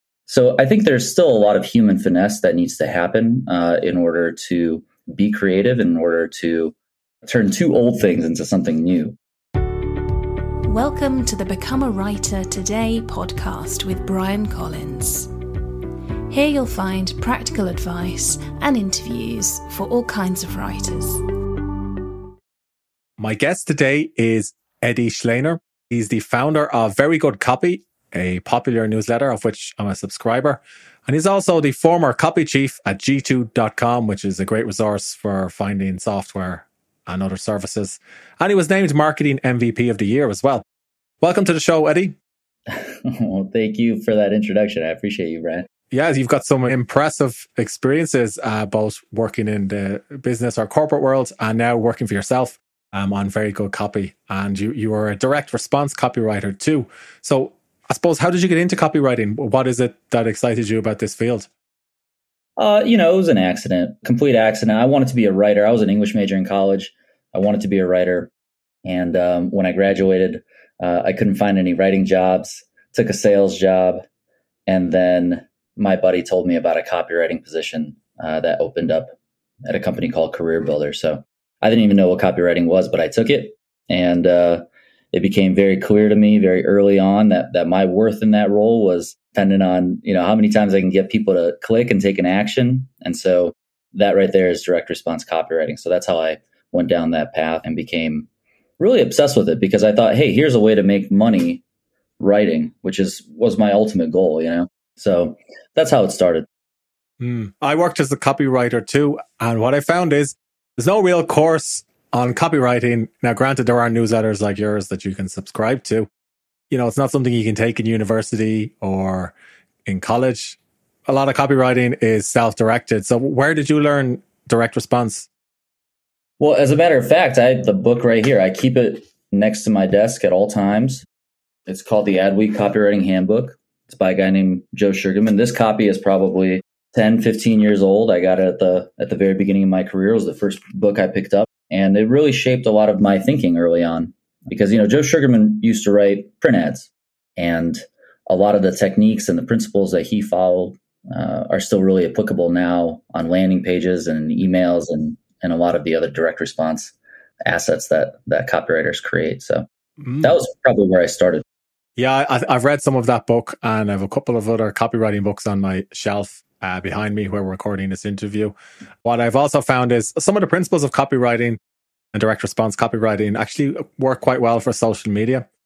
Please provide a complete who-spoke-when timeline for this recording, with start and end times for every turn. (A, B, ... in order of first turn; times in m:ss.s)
0:00.3-0:06.7 A
0:07.2-0:09.2 A
0:10.7-0:15.3 B
0:16.3-0:21.2 B
0:23.2-0:40.6 C
0:41.2-0:42.2 C
0:42.7-0:45.7 A
0:45.9-1:01.5 C
1:02.6-1:08.3 A
1:08.8-1:14.0 A
1:14.7-1:38.3 A
1:38.8-1:41.6 A
1:42.2-1:46.5 A
1:47.2-1:56.1 C
1:56.7-1:59.3 C
1:59.9-2:05.3 C
2:06.4-2:11.1 A
2:11.7-2:39.7 A
2:40.0-2:40.3 C
2:40.2-2:41.4 A
2:42.0-2:51.6 C
2:52.1-2:55.5 C